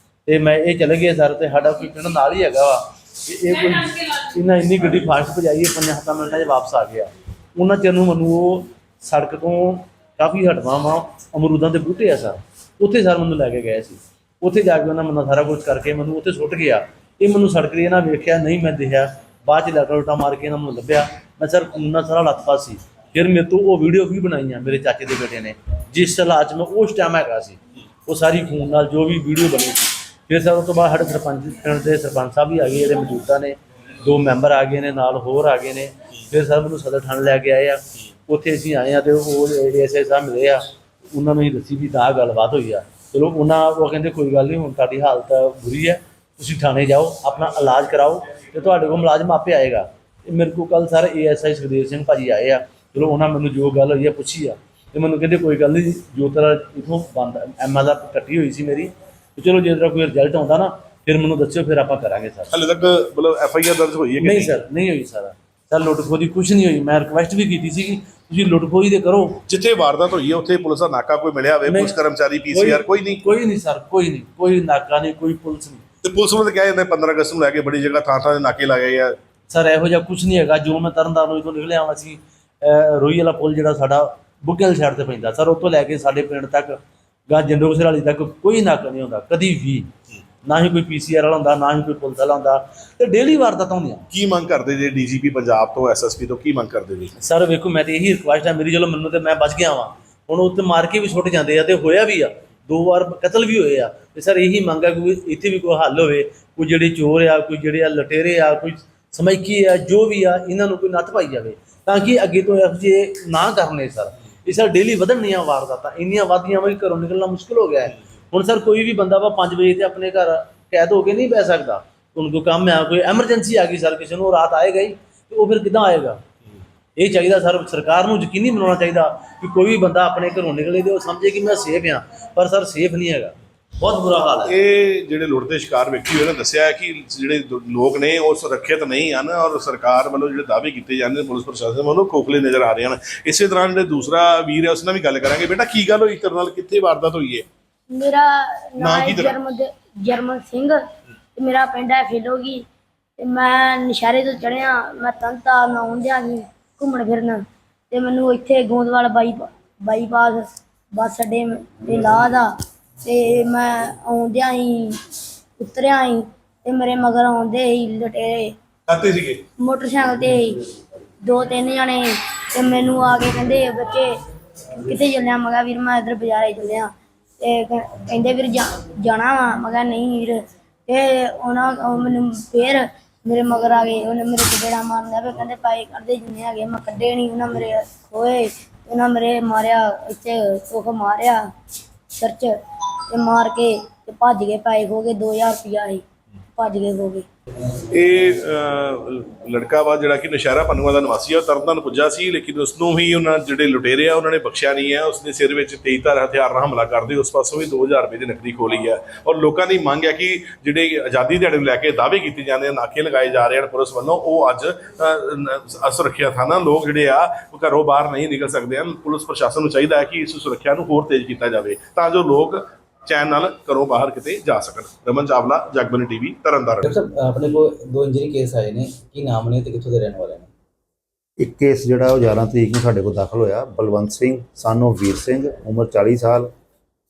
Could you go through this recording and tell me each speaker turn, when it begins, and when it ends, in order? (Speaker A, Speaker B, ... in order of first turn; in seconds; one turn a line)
Speaker A: 0.2-62.5
Speaker B: 62.5-64.5
Speaker A: 64.2-69.4
Speaker B: 69.5-73.2
Speaker A: 71.6-71.9
Speaker A: 72.5-75.8
Speaker B: 76.0-79.2
Speaker A: 79.5-89.9
Speaker A: 90.4-94.1
Speaker B: 94.1-97.1
Speaker A: 97.2-126.2
Speaker A: 127.0-134.5
Speaker B: 134.4-147.5
Speaker C: 147.9-150.8
Speaker B: 148.8-149.4
Speaker C: 151.3-152.6
Speaker C: 153.2-162.5
Speaker C: 163.0-165.0
Speaker C: 165.6-168.6
Speaker B: 168.9-169.4
Speaker C: 169.6-170.6
Speaker C: 171.2-174.1
Speaker C: 174.8-191.4
Speaker C: 192.1-192.5
Speaker C: 193.1-196.0
Speaker C: 196.6-197.2
Speaker B: 197.9-226.9
Speaker D: 226.8-230.5
Speaker E: 231.4-236.5